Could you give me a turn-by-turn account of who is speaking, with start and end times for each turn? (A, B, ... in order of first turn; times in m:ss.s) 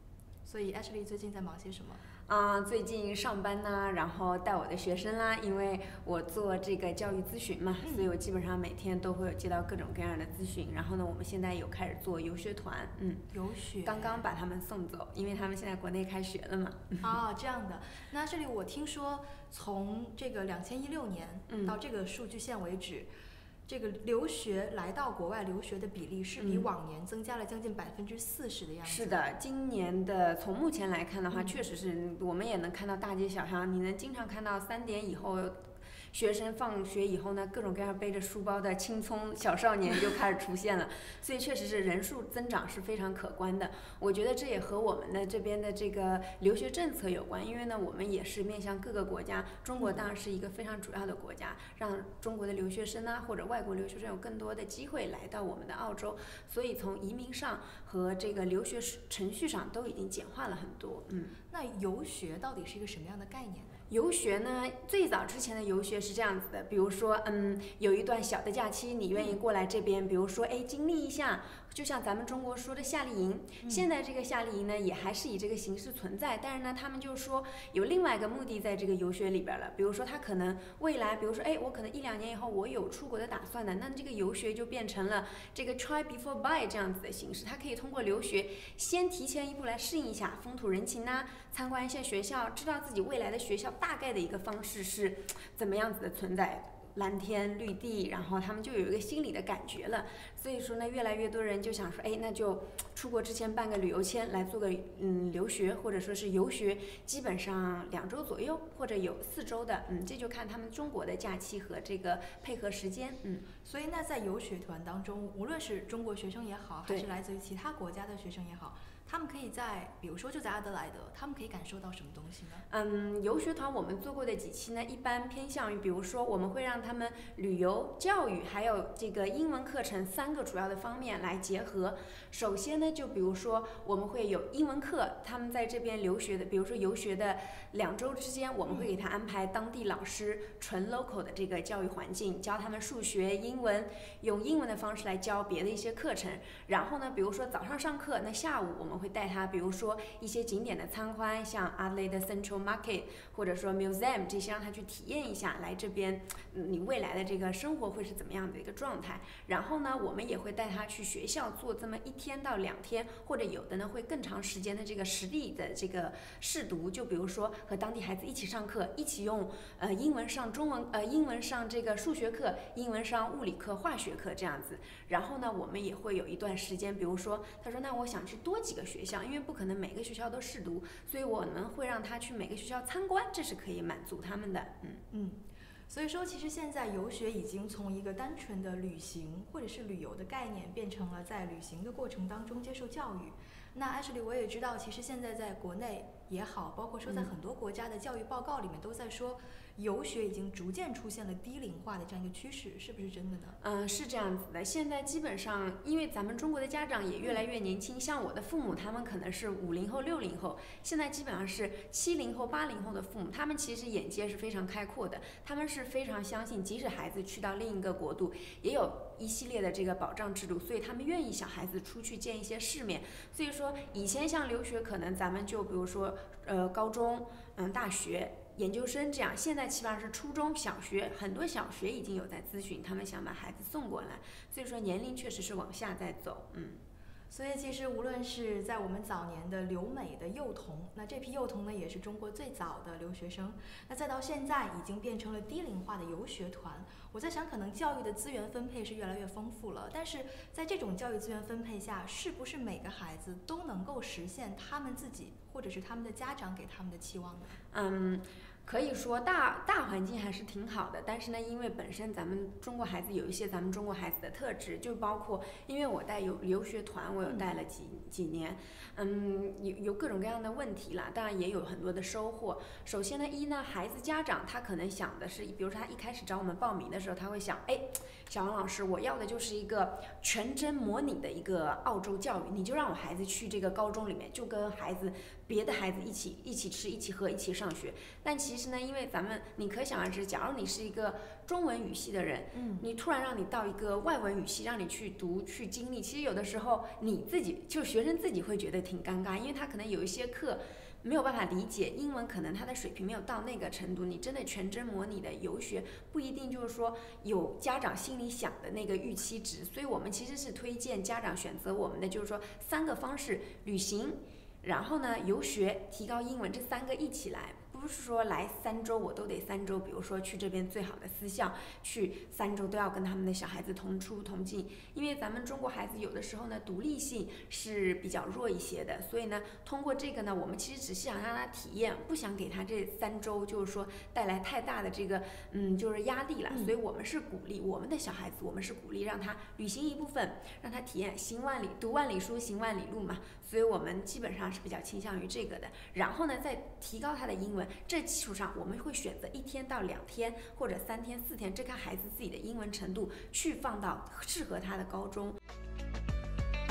0:00.4-0:02.1 A
0:02.3-0:13.2 B
0:07.8-0:08.2 A
0:13.3-0:14.2 A
0:13.8-0:17.2 B
0:17.0-0:23.1 A
0:21.5-0:21.8 B
0:23.7-0:29.2 A
0:26.4-0:26.7 B
0:28.8-1:01.4 B
0:31.3-0:31.6 A
1:01.5-1:03.8 A
1:03.9-1:53.5 B
1:53.6-2:02.6 A
2:02.7-3:05.0 B
3:05.1-3:23.6 A
3:17.1-3:17.3 B
3:23.6-3:56.8 B
3:57.3-4:17.6 A
4:17.7-5:55.4 B
4:52.5-4:52.9 A
5:36.5-5:36.7 A